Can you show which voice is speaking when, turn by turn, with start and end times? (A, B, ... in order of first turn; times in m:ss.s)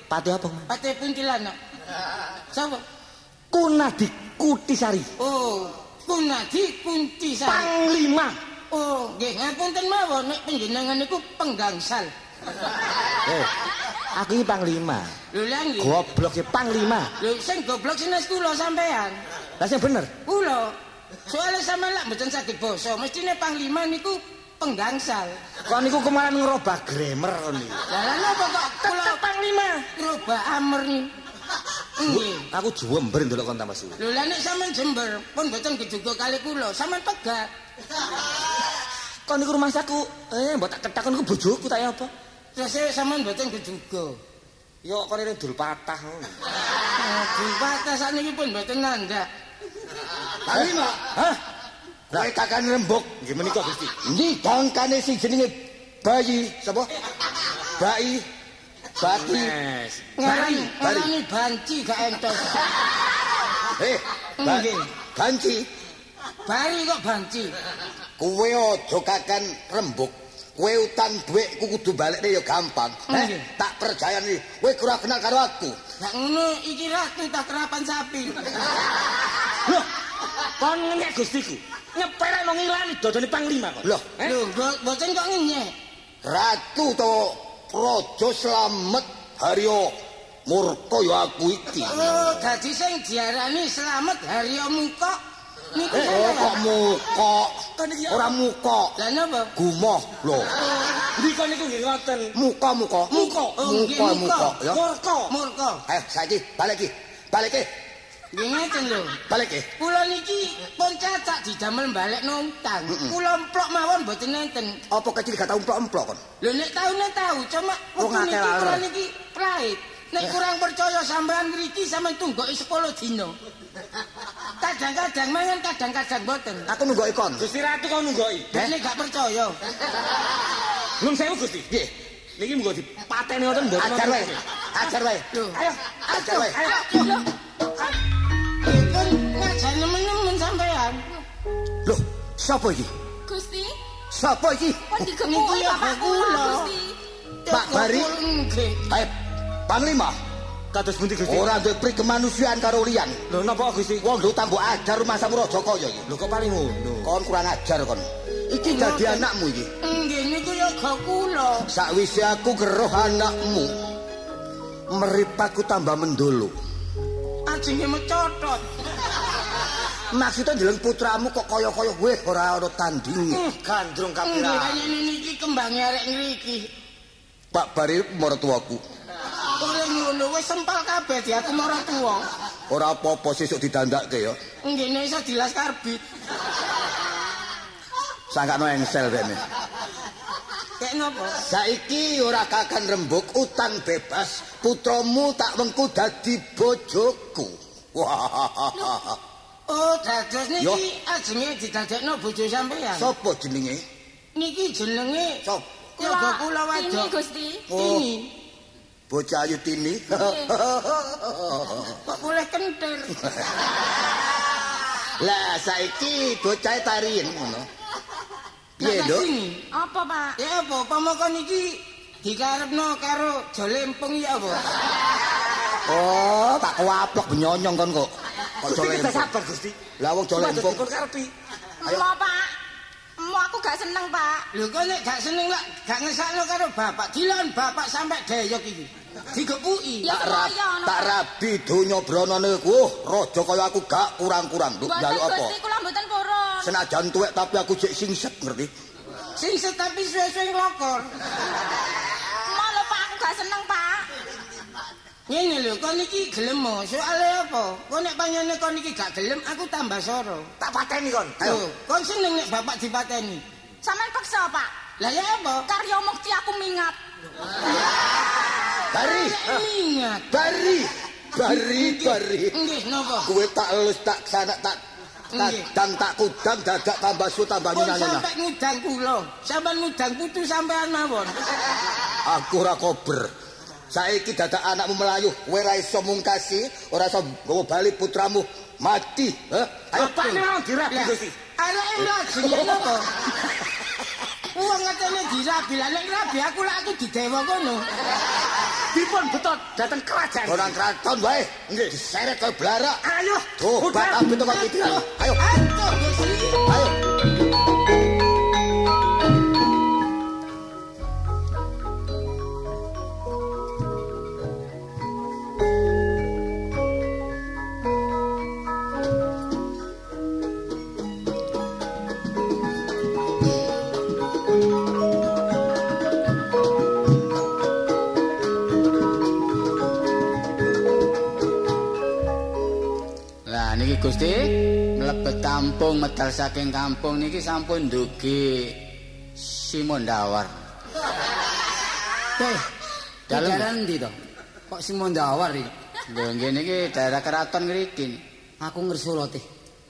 0:00.1-0:00.7 A
0:00.7-0:01.6 B
0:02.5-0:02.8 B
0:03.5-0:05.1 A
0:05.2-0:07.7 B
0:07.4-0:08.4 A
0:08.7-0:12.1 B
0:13.2-0:13.5 A
0:14.1-0:15.1 A
0:15.3-0:16.0 B
0:15.8-0:17.1 A
0:17.2-0:19.2 B
0:19.6-0:20.1 A
0:20.2-0:20.8 B
0:21.3-0:25.4 B
0:25.6-0:27.9 A
0:27.9-0:29.2 B
0:28.8-0:29.9 A
0:29.9-0:31.1 B
0:32.0-0:32.5 B
0:32.0-0:34.0 A
0:34.0-0:37.5 B
0:39.3-0:42.1 A
0:42.5-0:44.2 B
0:44.8-0:46.3 A
0:47.0-0:49.3 B
0:50.5-0:51.0 C
0:50.5-0:51.4 A
0:52.1-0:53.2 C
0:53.2-0:54.0 A
0:54.0-0:56.9 C
0:57.8-0:58.2 C
0:59.0-0:59.5 C
0:59.0-1:00.6 A
1:00.2-1:02.7 B
1:00.3-1:01.1 C
1:03.8-1:05.7 C
1:04.4-1:04.9 B
1:06.4-1:07.5 B
1:08.2-1:15.8 C
1:13.1-1:13.5 B
1:16.0-1:18.4 B
1:20.4-1:24.4 A
1:23.8-1:24.1 C
1:24.2-1:25.7 B
1:26.2-1:29.9 C
1:30.4-1:32.6 C
1:31.8-1:35.2 B
1:35.7-1:36.6 B
1:35.9-1:38.9 C
1:37.8-1:38.4 A
1:39.0-1:39.5 B
1:39.5-1:40.5 C
1:41.0-1:42.4 A
1:42.4-1:44.8 C
1:43.1-1:44.6 B
1:43.1-1:43.6 A
1:44.6-1:45.3 A
1:45.3-1:45.8 B
1:45.9-1:47.7 C
1:48.3-1:49.2 B
1:49.3-1:49.7 C
1:49.8-1:54.8 B
1:52.9-1:53.2 C
1:54.9-1:56.2 C
1:56.4-2:03.3 B
1:58.0-1:58.7 C
1:58.4-1:58.8 A
2:04.6-2:06.7 B
2:06.7-2:07.4 C
2:07.4-2:08.5 A
2:08.5-2:09.6 B
2:11.0-2:11.7 A
2:12.4-2:14.4 A
2:13.8-2:15.2 C
2:15.3-2:17.1 B
2:15.5-2:16.9 A
2:16.1-2:16.6 C
2:16.7-2:17.2 D
2:18.6-2:21.0 B
2:21.8-2:22.9 C
2:23.2-2:23.8 D
2:24.1-2:25.0 C
2:24.9-2:27.0 D
2:25.2-2:26.7 B
2:27.5-2:28.8 B
2:27.5-2:28.1 C
2:29.7-2:30.1 C
2:30.7-2:31.5 A
2:31.2-2:33.2 C
2:33.3-2:34.0 A
2:34.0-2:36.1 C
2:36.1-2:37.1 A
2:37.0-2:39.7 C
2:38.6-2:39.2 B
2:39.8-2:41.7 B
2:41.7-2:43.7 C
2:44.9-2:46.6 C
2:47.5-2:48.6 B
2:50.1-2:53.4 C
2:53.3-2:54.9 A
2:54.2-2:56.7 B
2:57.5-2:58.8 C
2:59.6-3:02.2 B
3:02.7-3:04.4 C
3:04.6-3:06.0 B
3:08.3-3:09.4 C
3:10.8-3:11.4 B
3:11.4-3:19.2 C
3:19.7-3:23.1 B
3:23.0-3:23.8 C
3:24.3-3:25.4 B
3:26.0-3:27.1 B
3:26.0-3:27.7 D
3:27.7-3:28.3 B
3:27.7-3:28.1 C
3:29.1-3:32.0 C
3:30.1-3:30.5 D
3:32.0-3:33.2 B
3:35.2-3:37.7 C
3:38.8-3:39.3 C
3:38.8-3:39.6 B
3:39.7-3:40.4 D
3:40.4-3:44.6 B
3:45.9-3:49.3 C
3:48.6-3:49.8 A
3:50.0-3:50.9 C
3:50.3-3:51.3 A
3:51.8-3:52.5 D
3:53.2-3:54.4 D
3:54.5-4:00.1 B
4:00.0-4:01.2 D
4:00.0-4:05.5 C
4:04.8-4:06.7 D
4:06.6-4:08.7 C
4:09.4-4:11.1 B
4:12.4-4:14.1 D
4:15.3-4:20.5 B
4:20.6-4:21.4 A
4:21.4-4:23.4 B
4:23.8-4:24.7 D
4:25.0-4:25.7 B
4:25.6-4:27.0 D
4:28.9-4:29.6 C
4:29.0-4:30.3 B
4:30.3-4:32.6 C
4:31.4-4:33.3 B
4:33.2-4:34.8 C
4:35.3-4:35.7 B
4:35.3-4:38.2 C
4:37.7-4:41.4 B
4:42.2-4:43.3 C
4:43.9-4:50.4 C
4:49.9-4:51.4 A
4:50.9-4:53.1 B
4:54.5-4:57.9 B
4:58.9-5:00.8 A
5:00.4-5:03.0 C
5:01.7-5:02.0 A
5:03.0-5:04.4 A
5:03.6-5:05.5 C
5:04.5-5:06.6 B
5:06.6-5:06.9 C
5:33.4-5:38.8 E
5:39.3-5:40.6 E
5:43.3-5:43.7 E
5:43.3-5:44.1 F
5:44.7-5:45.7 F
5:46.1-5:48.2 E
5:48.6-5:49.4 F